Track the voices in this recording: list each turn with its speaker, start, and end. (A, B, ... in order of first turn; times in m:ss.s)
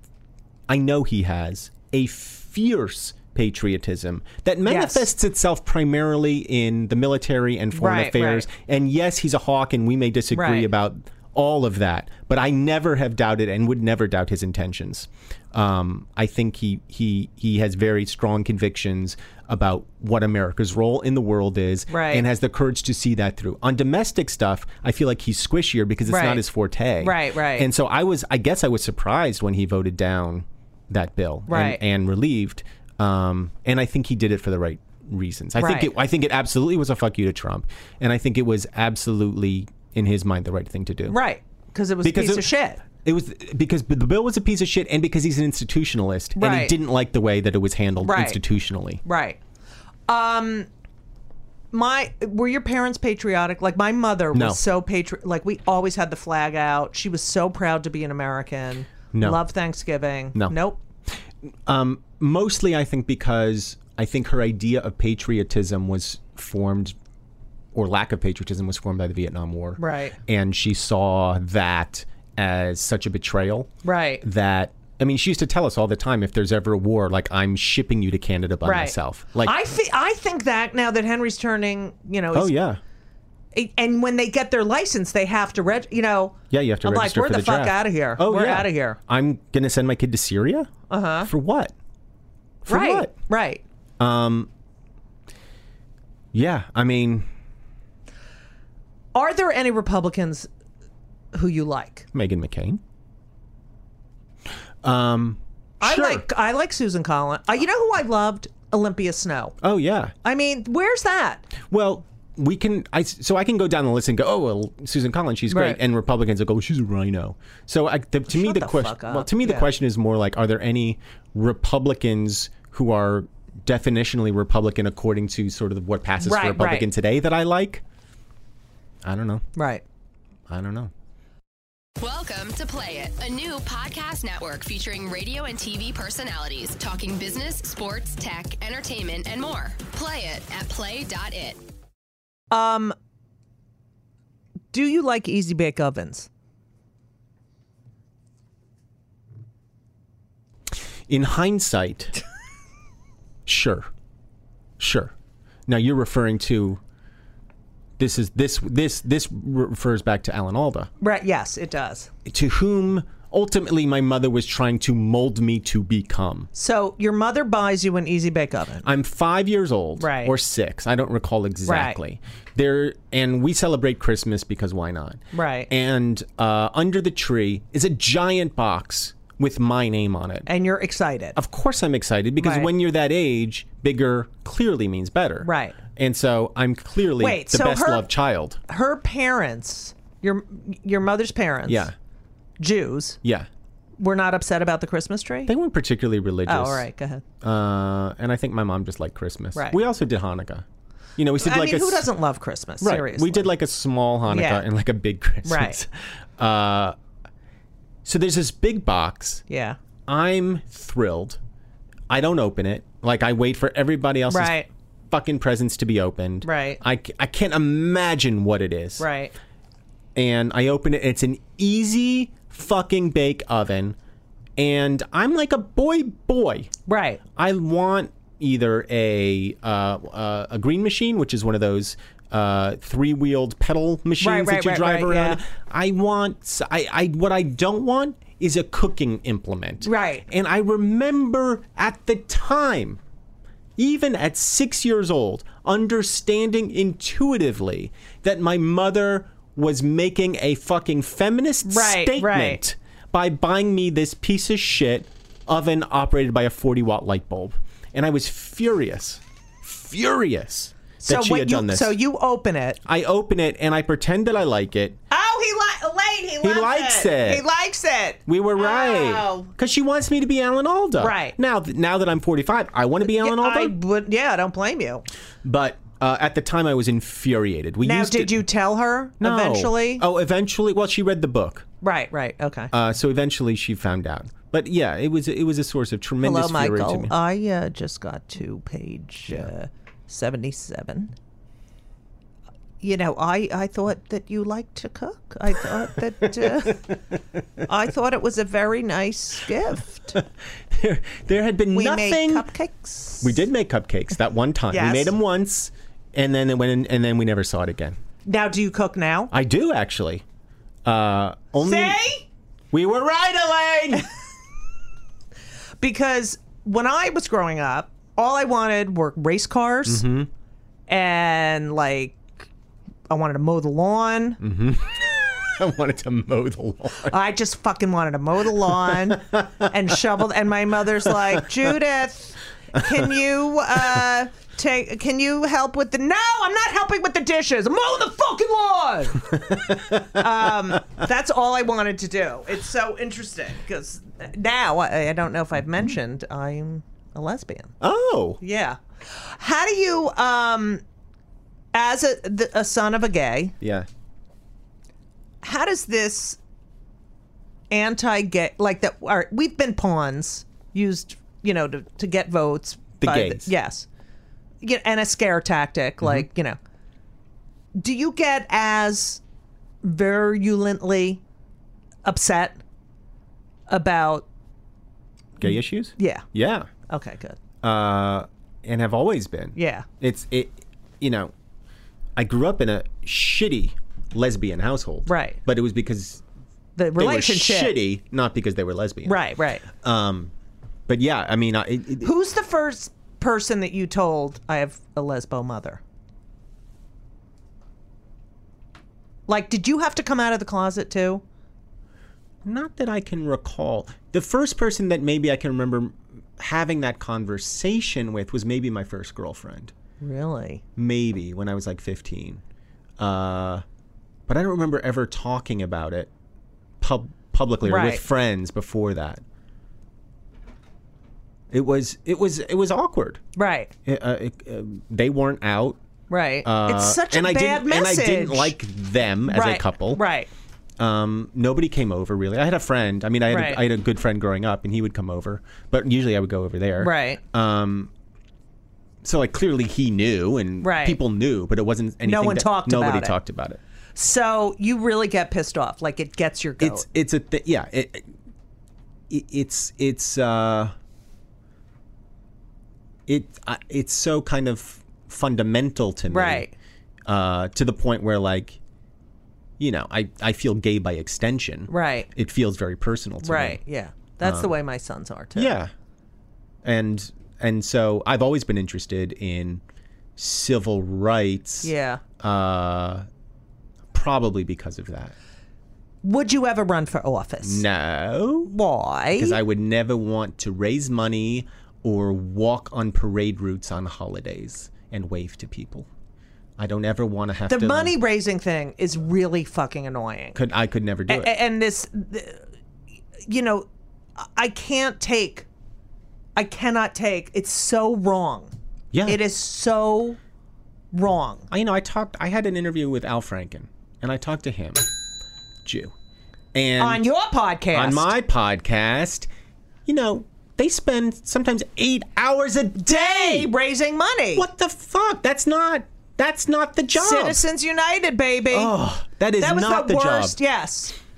0:00.7-0:41.2 A
0:04.6-0:05.1 B
0:07.7-0:08.5 B
0:10.3-0:10.7 B
0:21.9-0:22.2 B
0:26.1-0:26.4 B
0:27.0-0:27.7 B
0:31.5-0:31.8 B
0:35.6-0:35.9 B
0:41.1-0:42.8 B
0:42.0-0:49.0 A
0:46.4-0:46.8 B
0:48.0-0:48.4 B
0:49.0-0:49.4 B
0:50.1-0:50.7 B
0:51.7-1:00.8 B
0:54.3-0:54.6 A
0:59.1-0:59.4 A
1:01.6-1:07.0 A
1:07.7-1:13.7 A
1:09.8-1:10.2 B
1:13.8-1:14.2 B
1:14.2-1:19.5 A
1:18.6-1:22.5 B
1:22.3-1:22.8 A
1:23.5-1:29.0 B
1:26.5-1:30.7 A
1:30.9-1:31.3 B
1:31.2-1:31.7 A
1:32.6-1:33.1 A
1:32.7-1:33.6 B
1:34.0-1:34.5 A
1:36.3-1:37.3 A
1:39.1-1:40.5 B
1:41.3-1:42.1 B
1:42.1-1:42.8 A
1:44.8-1:46.2 A
1:45.8-1:49.5 B
1:49.6-1:50.1 A
1:50.2-1:51.5 B
1:51.7-2:07.8 A
1:55.5-1:55.8 B
1:58.3-1:59.7 B
2:06.2-2:06.9 B
2:09.0-2:09.4 A
2:09.6-2:09.8 B
2:10.5-2:10.9 A
2:12.0-2:21.6 C
2:22.5-2:22.9 B
2:24.7-2:26.3 B
2:31.1-2:32.2 A
2:33.4-2:33.9 A
2:34.8-2:35.1 A
2:35.7-2:36.8 A
2:38.0-2:40.9 A
2:41.0-2:42.1 B
2:42.2-2:46.5 A
2:46.5-2:48.8 B
2:48.8-3:00.5 A
2:50.0-2:50.3 B
2:51.6-2:52.0 B
2:55.3-2:55.7 B
3:00.4-3:01.4 B
3:01.4-3:08.6 A
3:02.4-3:02.7 B
3:05.4-3:05.8 B
3:07.2-3:08.1 B
3:08.7-3:11.9 B
3:11.6-3:11.9 A
3:12.6-3:13.2 B
3:13.2-3:13.5 A
3:14.0-3:15.5 B
3:15.4-3:16.8 A
3:16.5-3:17.2 B
3:17.4-3:20.6 A
3:21.2-3:22.0 A
3:21.4-3:23.5 B
3:22.8-3:27.0 A
3:24.3-3:24.6 B
3:25.4-3:25.8 B
3:28.0-3:29.4 A
3:29.5-3:29.8 B
3:30.1-3:31.4 A
3:32.1-3:34.6 A
3:34.3-3:34.7 B
3:35.1-3:39.1 A
3:36.4-3:36.8 B
3:39.0-3:39.3 B
3:40.1-3:44.0 A
3:44.6-3:46.7 A
3:46.9-3:47.2 B
3:47.4-4:03.0 A
3:54.2-3:55.4 B
3:59.8-4:00.2 B
4:03.8-4:21.9 A
4:11.6-4:12.6 B
4:21.0-4:22.8 B
4:22.8-4:25.0 A
4:25.1-4:29.5 B
4:26.4-4:27.4 A
4:28.2-4:33.7 A
4:31.0-4:31.4 B
4:33.0-4:35.0 B
4:35.4-4:38.4 A
4:37.8-4:40.0 B
4:39.2-4:41.7 A
4:41.8-4:42.7 B
4:42.7-4:47.1 A
4:46.2-4:51.1 B
4:52.8-4:56.9 B
4:57.6-5:00.2 B
5:00.1-5:02.5 A
5:01.7-5:03.4 B
5:03.2-5:08.0 A
5:04.7-5:05.1 B
5:08.2-5:09.3 B
5:09.3-5:10.2 A
5:10.8-5:12.0 A
5:11.6-5:12.3 B
5:12.7-5:14.1 A
5:15.8-5:20.0 B
5:19.8-5:20.3 A
5:20.9-5:22.2 B
5:23.1-5:24.4 B
5:24.4-5:27.2 A
5:27.1-5:47.7 B
5:28.6-5:29.7 A
5:31.0-5:31.7 A
5:32.8-5:33.1 A
5:39.3-5:40.8 A
5:47.8-5:48.4 A
5:48.4-5:50.8 B
5:51.7-5:53.5 B
5:53.6-5:53.9 A
5:55.4-5:56.4 B
5:57.7-6:03.9 B
6:03.0-6:03.5 A
6:04.6-6:06.6 B
6:07.8-6:09.2 B
6:09.8-6:11.2 B
6:12.0-6:12.6 B
6:13.7-6:14.3 B
6:15.4-6:16.7 A
6:16.0-6:16.2 B
6:16.9-6:17.4 B
6:17.6-6:21.3 A
6:19.5-6:19.8 B
6:22.2-6:26.2 A
6:25.1-6:25.4 B
6:26.8-6:27.8 B
6:27.0-6:30.3 A
6:29.0-6:29.6 B
6:30.9-6:32.1 A
6:32.0-6:35.8 B
6:39.3-6:41.2 B
6:42.4-6:49.7 A
6:50.0-6:50.6 B
6:50.8-6:52.4 A
6:53.0-6:53.6 A
6:54.3-6:56.1 A
6:56.8-6:59.2 A
6:57.6-6:58.0 B
7:01.5-7:03.2 A
7:03.4-7:03.7 B
7:03.8-7:05.8 A
7:06.1-7:08.5 B
7:06.4-7:10.0 A
7:09.3-7:10.3 B
7:10.8-7:17.9 A
7:13.3-7:13.6 B
7:16.8-7:17.2 B
7:19.0-7:23.6 A
7:20.6-7:21.0 B
7:22.0-7:23.1 B
7:23.9-7:26.8 B
7:26.6-7:28.1 A
7:29.1-7:30.7 A
7:33.1-7:36.4 A
7:36.1-7:36.5 B
7:37.0-7:38.6 A
7:39.6-7:43.6 A
7:41.7-7:42.1 B
7:43.2-7:45.6 B
7:44.2-7:44.5 A
7:45.3-7:45.7 A
7:46.6-7:49.6 A
7:50.2-7:53.0 A
7:51.6-7:52.0 B
7:53.9-7:55.1 A
7:56.0-7:57.6 B
7:57.4-7:58.5 A
7:58.5-7:59.4 B
7:59.1-8:05.9 A
8:06.6-8:07.9 A
8:07.5-8:10.4 B
8:10.3-8:11.3 A
8:11.1-8:12.4 B
8:13.2-8:13.7 B
8:14.2-8:15.5 B
8:16.4-8:18.5 B
8:18.9-8:19.2 A
8:19.0-8:20.2 B
8:20.9-8:21.5 B
8:21.5-8:24.8 A
8:25.6-8:25.9 A
8:26.5-8:27.0 A
8:26.8-8:28.1 B
8:27.7-8:29.3 A
8:29.8-8:33.5 A
8:32.8-8:34.5 B
8:34.3-8:37.4 A
8:36.9-8:38.8 B
8:38.5-8:40.4 A
8:39.4-8:41.0 B